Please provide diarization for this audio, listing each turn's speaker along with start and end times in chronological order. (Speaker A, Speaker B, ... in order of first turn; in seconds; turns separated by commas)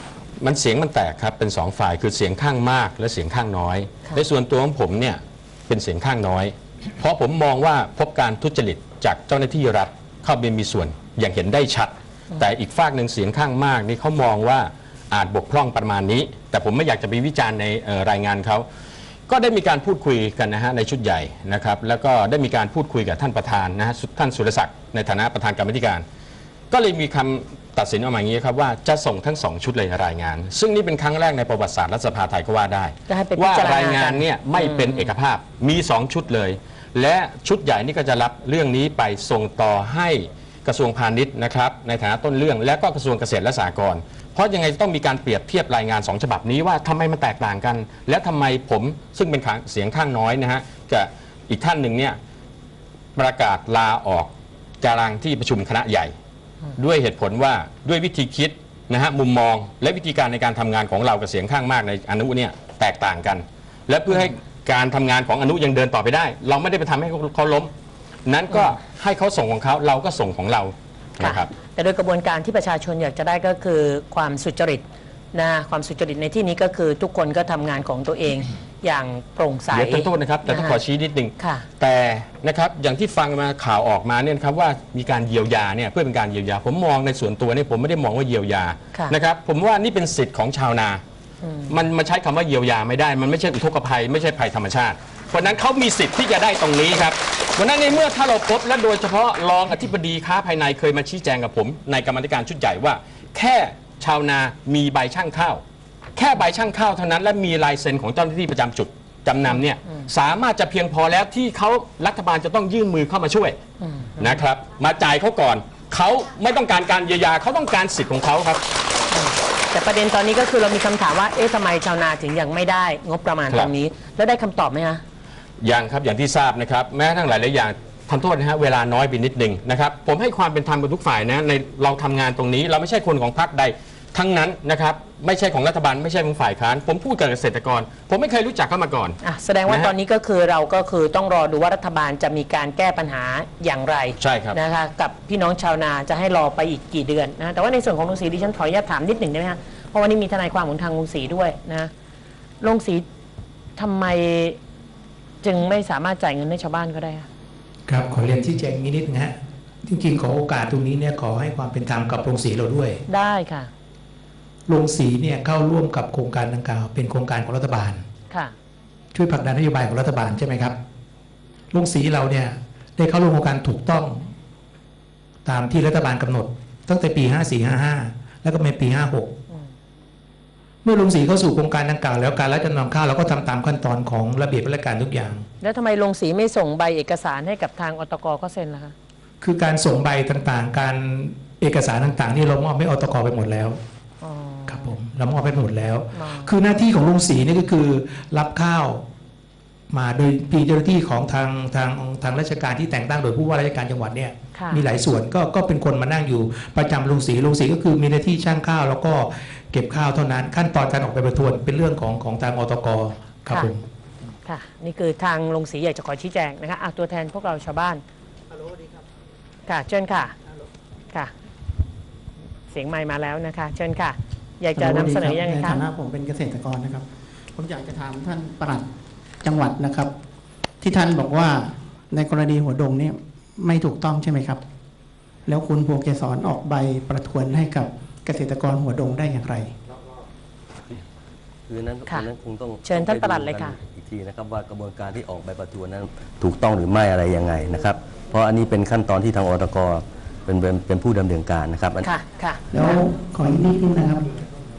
Speaker A: 0.4-18.6, Speaker A: 19.3-26.0, Speaker A: 26.7-52.2, Speaker B: 33.1-35.1, Speaker A: 53.1-56.1, Speaker A: 56.8-67.7, Speaker A: 68.2-71.5, Speaker B: 71.2-80.8, Speaker A: 79.7-91.0, Speaker B: 81.4-81.6, Speaker B: 91.4-91.7, Speaker A: 91.7-105.6, Speaker A: 106.2-113.6, Speaker B: 113.8-114.4, Speaker A: 114.2-118.6, Speaker B: 119.1-125.0, Speaker A: 125.6-139.9, Speaker B: 139.2-151.9, Speaker A: 144.2-144.6, Speaker B: 152.6-153.1, Speaker B: 153.8-154.6, Speaker B: 155.4-157.3, Speaker C: 157.9-163.0, Speaker B: 163.1-163.7, Speaker C: 164.7-168.0, Speaker C: 169.1-170.8, Speaker C: 171.7-174.3, Speaker C: 175.4-179.4, Speaker C: 180.8-185.5, Speaker B: 185.6-188.9, Speaker C: 189.4-193.8, Speaker B: 194.2-194.9, Speaker C: 194.7-199.0, Speaker B: 196.1-196.5, Speaker C: 199.9-213.8, Speaker B: 204.5-204.8, Speaker B: 214.4-218.0, Speaker B: 219.7-220.3, Speaker B: 222.7-225.8, Speaker D: 224.8-228.9, Speaker D: 229.4-230.1, Speaker D: 230.8-234.6, Speaker D: 235.4-239.7, Speaker E: 241.7-252.1, Speaker B: 242.8-243.8, Speaker B: 252.0-253.0, Speaker D: 252.7-254.3